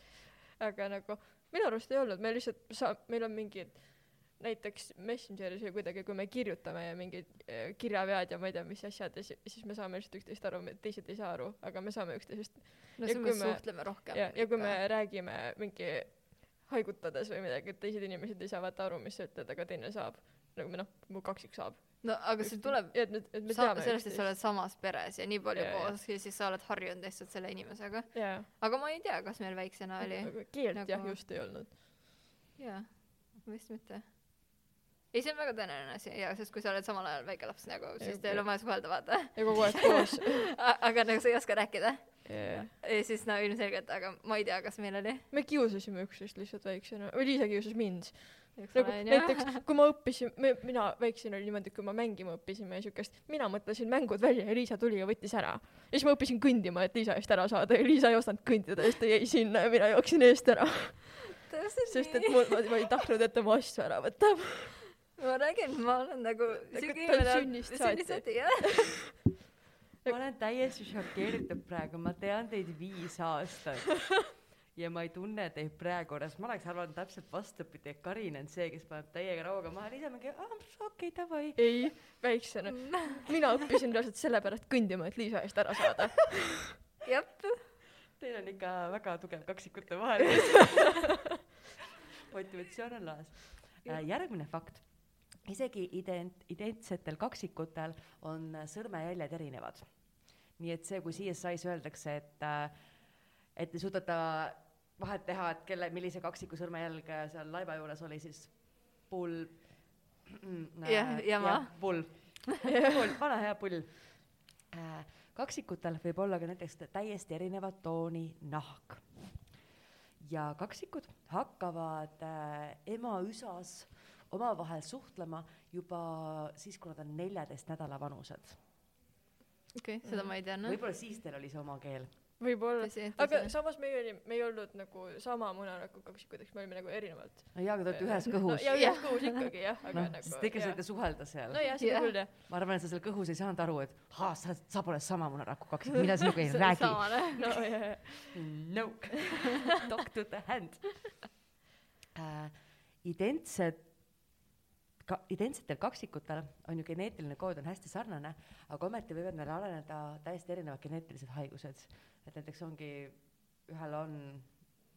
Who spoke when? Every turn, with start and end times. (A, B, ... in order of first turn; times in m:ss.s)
0:00.6-0:24.3 A
0:13.0-0:14.8 B
0:22.0-0:31.2 B
0:25.5-0:26.0 A
0:28.1-0:28.5 A
0:30.0-0:31.8 A
0:32.6-0:34.6 B
0:35.1-0:45.2 B
0:38.0-0:40.5 A
0:42.3-0:42.7 A
0:45.3-1:01.3 A
0:48.6-0:49.6 B
1:01.4-1:02.6 B
1:01.9-1:04.8 A
1:05.2-1:08.9 B
1:06.5-1:09.1 A
1:10.1-1:21.6 C
1:21.6-1:26.6 A
1:22.9-1:23.2 B
1:27.0-1:27.6 B
1:28.2-1:31.2 C
1:30.5-1:31.0 A
1:32.3-1:34.9 C
1:35.4-1:39.9 C
1:40.6-1:42.8 C
1:43.6-1:49.7 C
1:50.3-1:59.1 C
1:50.8-1:51.8 B
2:00.2-2:08.6 C
2:09.8-2:10.8 B
2:10.0-2:10.3 A
2:10.6-2:12.1 C
2:12.4-2:22.3 A
2:12.8-2:13.6 B
2:17.5-2:18.9 C
2:18.7-2:19.5 B
2:19.9-2:27.6 C
2:21.8-2:22.2 B
2:26.4-2:27.5 B
2:27.4-2:28.5 A
2:28.3-2:31.3 C
2:32.2-2:33.9 C
2:35.0-2:44.5 C